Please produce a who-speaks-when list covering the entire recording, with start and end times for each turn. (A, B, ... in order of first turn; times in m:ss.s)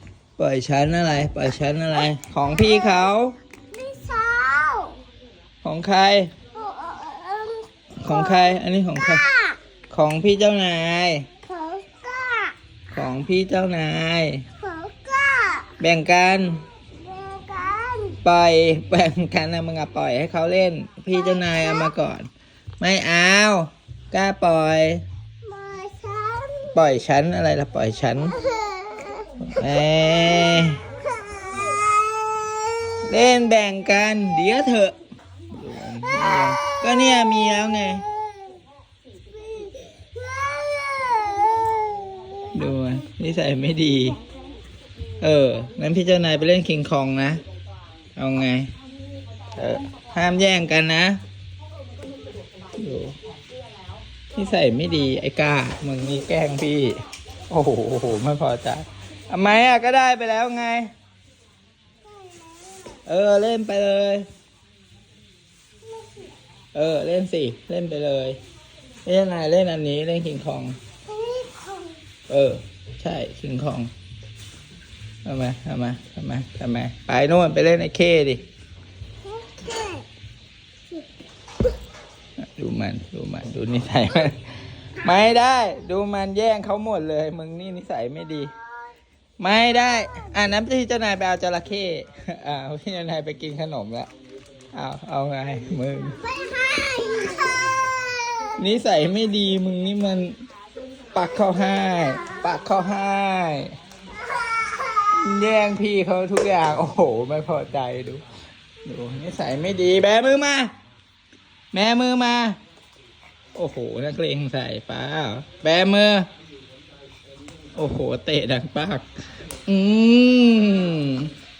0:00.4-0:03.4 A
0:02.4-0:03.1 B
0:03.7-0:05.0 B
0:05.6-0:06.3 A
0:06.5-0:09.6 B
0:08.0-0:09.2 A
0:09.9-0:11.3 A
0:11.4-0:12.6 B
0:12.9-0:14.4 A
0:14.6-0:15.8 B
0:15.8-0:16.7 A
0:17.0-0:18.2 B
0:18.2-0:25.0 A
0:21.1-0:21.9 B
0:25.4-0:26.9 B
0:26.7-0:28.4 A
0:28.3-0:29.4 B
0:29.4-0:30.8 A
0:30.2-0:33.0 B
0:33.0-0:35.0 A
0:35.5-0:38.1 A
0:36.1-0:36.8 B
0:38.1-0:38.4 B
0:39.3-0:42.6 B
0:42.5-0:44.2 A
0:45.2-0:47.4 A
0:48.2-0:48.7 A
0:49.6-0:51.2 A
0:52.8-0:53.2 A
0:54.3-0:57.0 A
0:57.5-1:00.9 A
1:02.1-1:03.0 B
1:03.1-1:04.3 A
1:05.9-1:06.3 B
1:06.7-1:08.4 A
1:09.0-1:10.8 A
1:11.0-1:12.0 B
1:12.3-1:13.9 A
1:15.2-1:18.4 A
1:19.2-1:20.1 B
1:22.4-1:28.5 A
1:29.4-1:34.1 A
1:30.0-1:30.3 B
1:34.7-1:36.2 A
1:36.1-1:38.6 B
1:38.6-1:40.4 A
1:41.1-1:43.8 A
1:42.2-1:42.4 B
1:44.3-1:45.1 B
1:45.1-1:48.2 A
1:48.8-1:50.7 A
1:51.7-1:52.6 A
1:53.5-1:56.3 A
1:57.8-1:59.1 A
1:59.7-2:01.3 A